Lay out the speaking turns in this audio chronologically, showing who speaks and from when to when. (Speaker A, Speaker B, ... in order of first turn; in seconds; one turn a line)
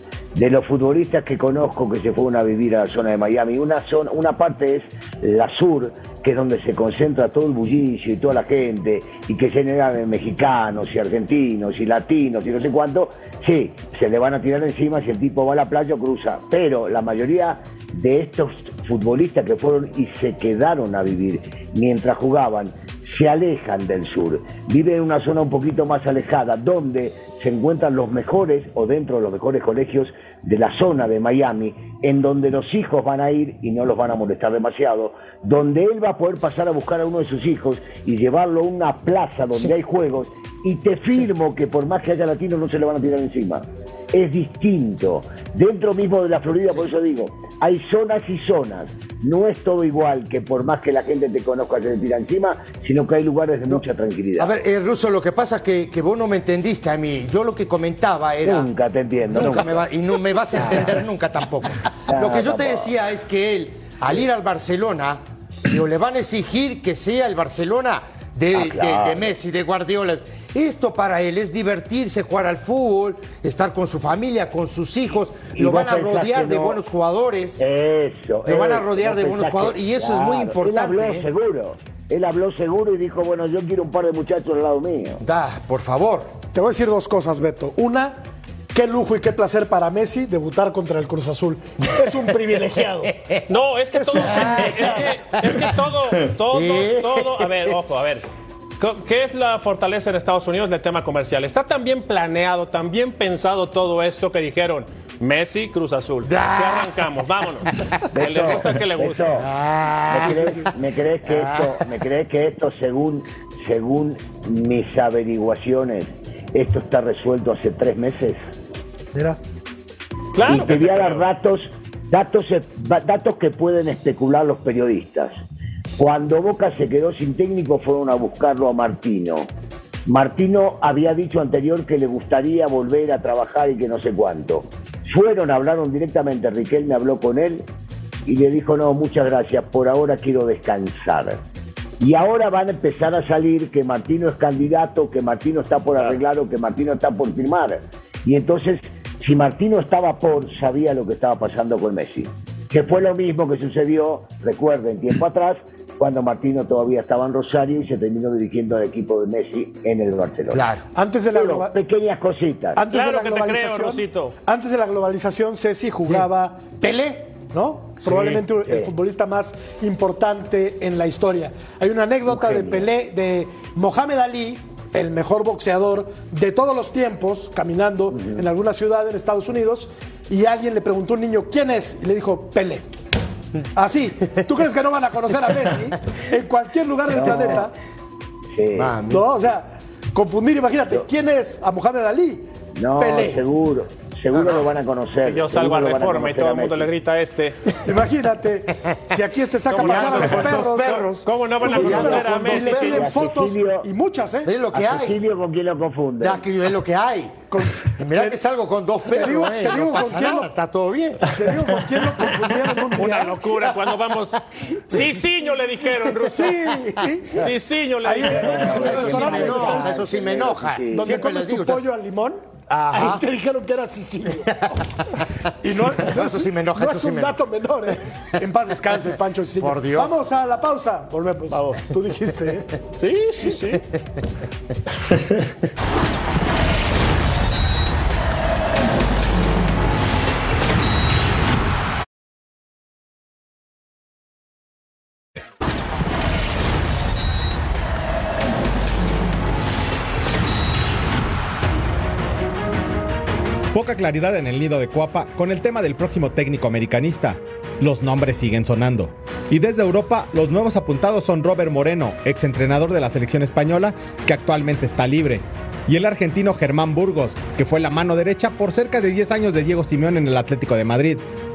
Speaker A: 0.3-54.5
Speaker B: 54.4-58.7
Speaker A: 58.4-59.8
Speaker B: 59.3-77.6
Speaker A: 60.5-61.0
Speaker A: 62.1-62.9
Speaker A: 68.5-69.3
Speaker A: 75.5-76.8
Speaker A: 77.6-85.2
Speaker B: 78.5-81.3
Speaker B: 85.2-86.4
Speaker C: 86.5-88.2
Speaker C: 88.7-93.2
Speaker B: 93.0-93.4
Speaker D: 93.5-98.2
Speaker C: 93.9-95.0
Speaker B: 94.2-95.7
Speaker B: 96.5-97.8
Speaker D: 98.8-109.5
Speaker B: 106.2-107.9
Speaker A: 108.1-109.5
Speaker B: 109.4-110.7
Speaker A: 110.1-118.4
Speaker B: 111.3-111.8
Speaker D: 120.3-121.2
Speaker A: 120.5-125.4
Speaker A: 126.0-129.5
Speaker A: 130.1-137.7
Speaker A: 138.3-141.4
Speaker A: 142.0-160.7
Speaker B: 160.5-160.9
Speaker C: 160.9-161.7
Speaker A: 161.3-162.8
Speaker C: 162.8-182.9
Speaker D: 162.9-164.3
Speaker B: 168.0-168.5
Speaker A: 172.3-172.9
Speaker A: 178.2-178.4
Speaker C: 183.8-187.7
Speaker A: 187.1-187.7
Speaker B: 187.2-187.6
Speaker A: 188.6-188.9
Speaker B: 188.8-189.3
Speaker C: 189.1-193.4
Speaker A: 192.8-196.9
Speaker B: 194.3-194.7
Speaker D: 195.2-197.6
Speaker C: 197.8-204.5
Speaker D: 199.7-203.1
Speaker B: 199.7-203.0
Speaker A: 202.7-203.9
Speaker B: 204.4-205.2
Speaker A: 204.7-206.4
Speaker B: 206.2-211.7
Speaker C: 207.5-208.4
Speaker C: 209.1-210.5
Speaker C: 211.3-213.5
Speaker D: 212.9-214.4
Speaker B: 214.6-215.2
Speaker D: 214.9-216.5
Speaker B: 216.1-216.5
Speaker C: 216.3-217.4
Speaker D: 217.4-219.4
Speaker C: 218.0-220.1
Speaker A: 218.2-221.2
Speaker B: 218.4-221.9
Speaker C: 220.9-224.8
Speaker B: 222.7-223.2
Speaker B: 224.5-224.8
Speaker C: 225.6-232.7
Speaker B: 226.0-227.4
Speaker B: 229.6-230.2
Speaker D: 231.5-231.8
Speaker D: 233.0-233.8
Speaker B: 233.7-234.2
Speaker E: 253.7-271.2